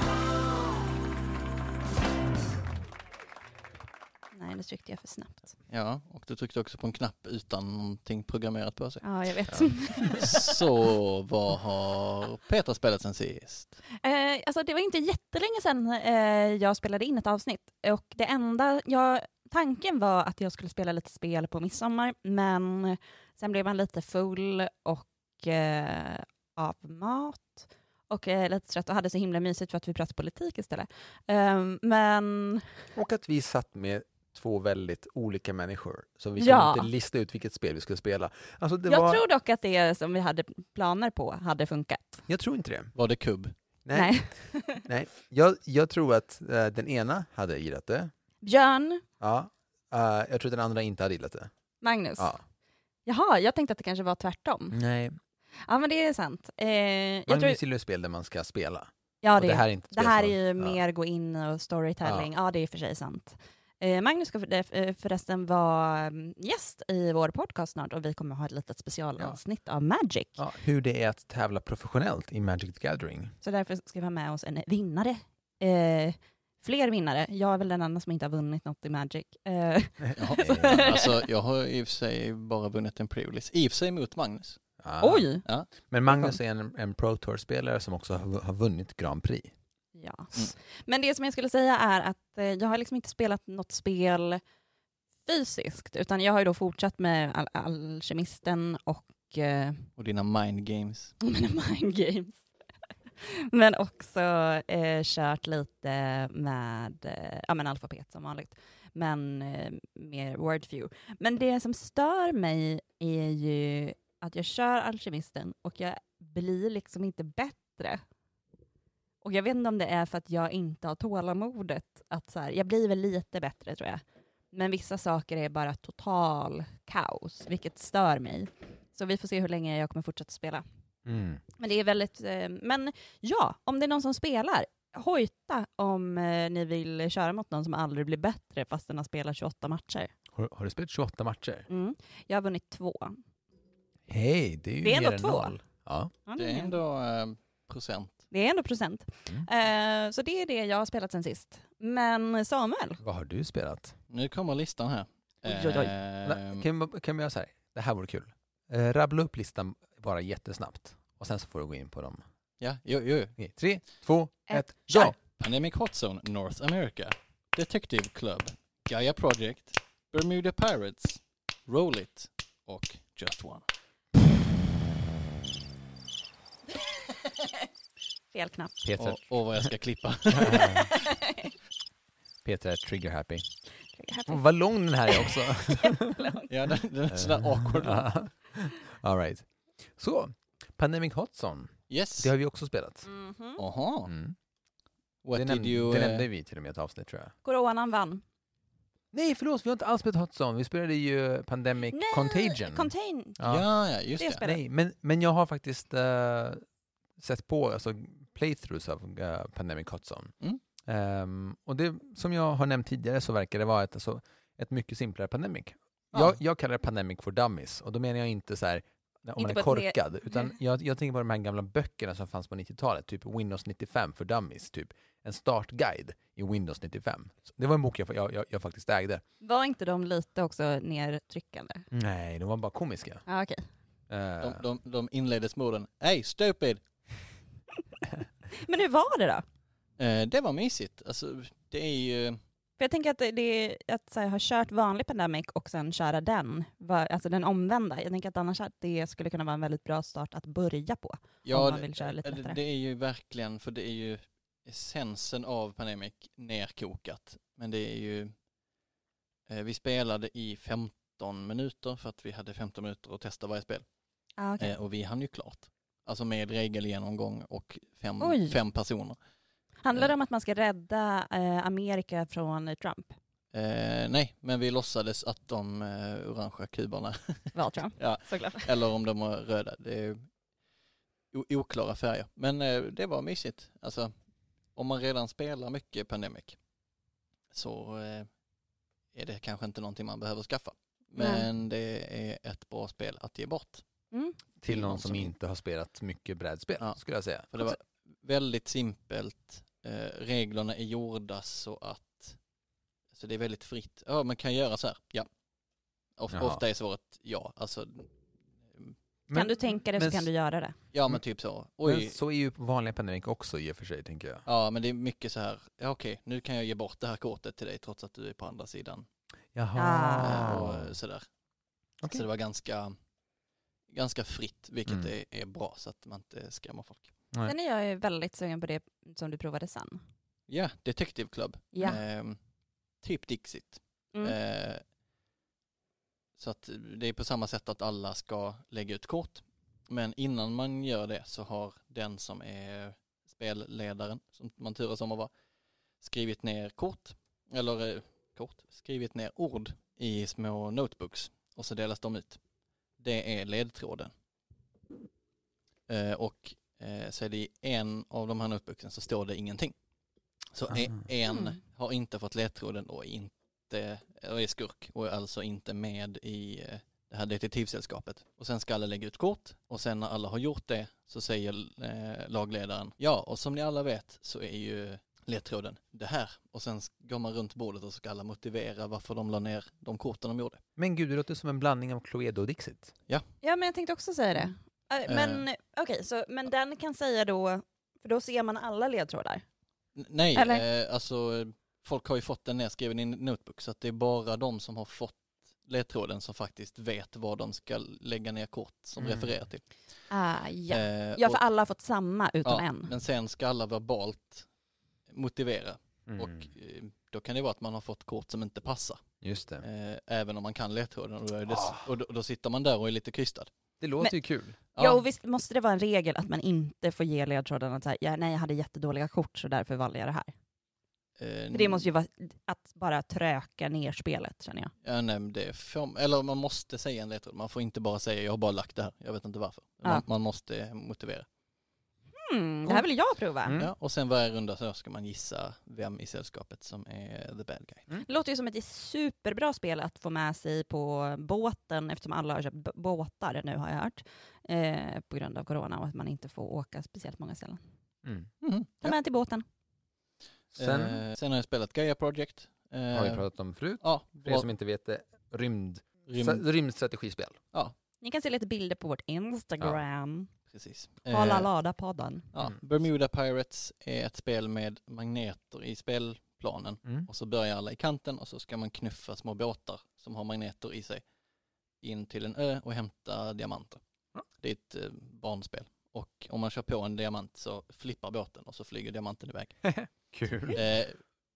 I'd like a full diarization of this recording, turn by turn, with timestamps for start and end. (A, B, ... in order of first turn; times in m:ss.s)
0:04.3-0:05.5 A
0:05.7-0:09.0 B
0:09.0-0:10.5 A
0:09.5-0:10.2 C
0:10.2-0:13.8 B
0:14.0-0:32.6 A
0:32.9-0:39.2 C
0:36.4-0:36.9 A
0:38.8-0:42.2 A
0:42.3-0:42.9 C
0:42.9-0:43.5 B
0:43.8-0:48.1 C
0:43.9-0:44.8 A
0:48.4-0:49.0 A
0:49.2-0:51.5 C
0:51.8-0:52.3 A
0:52.2-0:52.4 C
0:53.0-0:54.8 A
0:54.7-0:55.2 C
0:55.6-0:57.6 A
0:57.3-1:00.8 C
0:59.2-1:10.4 A
1:02.0-1:02.3 C
1:10.4-1:13.3 C
1:13.4-1:21.1 A
1:20.2-1:24.6 B
1:20.4-1:20.9 C
1:24.8-1:25.3 C
1:25.0-1:25.4 A
1:25.8-1:29.5 C
1:29.9-1:34.4 A
1:35.2-1:39.9 A
1:40.0-1:41.2 B
1:41.2-1:42.4 A
1:43.2-1:58.0 A
1:59.2-2:10.6 A
2:11.0-2:11.4 C
2:11.6-2:20.1 A
2:20.3-2:21.7 C
2:21.7-2:23.2 A
2:24.1-2:26.1 C
2:24.8-2:25.6 A
2:26.2-2:26.7 A
2:26.4-2:28.2 B
2:28.3-2:33.0 A
2:33.0-2:34.0 C
2:34.1-2:36.6 B
2:35.5-2:42.2 C
2:35.5-2:35.8 A
2:42.6-2:43.4 B
2:43.4-2:45.2 C
2:44.5-2:45.1 A
2:45.0-2:53.6 B
2:58.3-2:58.8 A
2:58.8-2:59.7 C
2:59.0-3:00.8 B
3:00.3-3:00.9 C
3:00.5-3:01.5 A
3:02.4-3:03.4 C
3:03.9-3:04.4 A
3:04.3-3:06.1 C
3:05.1-3:06.5 A
3:06.5-3:08.0 B
3:07.1-3:13.1 C
3:11.9-3:12.3 B
3:13.0-3:13.6 A
3:13.6-3:14.1 B
3:14.1-3:14.4 C
3:15.2-3:16.3 B
3:15.3-3:17.3 C
3:17.4-3:18.2 A
3:19.1-3:23.6 C
3:21.9-3:23.4 A
3:23.4-3:24.4 B
3:24.2-3:24.6 A
3:24.4-3:26.6 C
3:27.2-3:49.2 C
3:36.1-3:36.4 B
3:39.4-3:40.5 A
3:49.4-3:51.9 A
3:51.9-3:53.2 C
3:53.2-3:53.6 A
3:54.1-3:54.6 C
3:54.4-3:56.8 B
3:58.5-3:59.4 A
4:00.0-4:02.4 B
4:02.8-4:12.6 A
4:11.4-4:18.3 B
4:19.5-4:23.8 B
4:24.4-4:24.8 A
4:24.6-4:29.2 B
4:28.2-4:28.6 A
4:29.8-4:33.1 A
4:33.5-4:40.3 B
4:37.5-4:38.7 A
4:41.3-4:44.1 B
4:44.7-4:46.6 B
4:47.5-4:48.3 B
4:49.1-4:53.8 B
4:51.2-4:51.4 A
4:54.1-4:54.4 A
4:54.6-4:57.7 C
4:54.6-4:55.3 B
4:57.5-5:02.4 B
5:03.1-5:05.3 B
5:06.2-5:08.1 B
5:06.3-5:06.6 C
5:09.3-5:10.3 C
5:09.3-5:10.8 A
5:10.9-5:12.2 B
5:11.8-5:14.4 C
5:14.4-5:19.0 B
5:19.5-5:20.9 C
5:19.8-5:20.6 A
5:20.2-5:21.2 B
5:22.1-5:22.9 B
5:23.9-5:27.1 B
5:27.4-5:30.0 A
5:30.5-5:32.4 B
5:31.7-5:32.0 A
5:33.0-5:34.8 B
5:36.4-5:45.3 B
5:46.0-5:52.4 B
5:53.0-5:54.1 B
5:55.9-5:59.7 B
6:00.5-6:20.6 B
6:01.3-6:01.6 A
6:20.8-6:22.9 C
6:23.4-6:29.4 A
6:25.0-6:25.4 B
6:30.0-6:39.7 B
6:30.3-6:30.6 A
6:39.0-6:39.3 C
6:40.1-6:42.9 A
6:40.7-6:41.4 B
6:42.4-6:44.5 B
6:45.1-6:49.1 B
6:46.1-6:46.5 C
6:49.2-6:49.6 C
6:49.6-6:53.5 B
6:51.5-6:51.9 C
6:53.8-6:54.6 C
6:54.7-6:55.0 B
6:54.7-7:00.3 A
7:01.2-7:01.9 B
7:01.5-7:04.7 A
7:04.8-7:11.3 B
7:12.1-7:13.6 A
7:13.4-7:13.7 C
7:13.6-7:17.9 B
7:18.0-7:27.6 A
7:28.0-7:28.3 C
7:28.4-7:28.9 B
7:28.8-7:29.4 A
7:30.5-7:31.0 C
7:30.6-7:33.2 B
7:32.9-7:37.4 C
7:33.8-7:34.5 B
7:36.1-7:36.4 B
7:38.0-7:40.3 A
7:40.5-7:41.5 B
7:41.1-7:42.3 A
7:42.3-7:51.0 B
7:51.8-7:53.8 B
7:54.4-7:59.7 B
7:59.6-8:00.6 C
8:00.5-8:01.0 B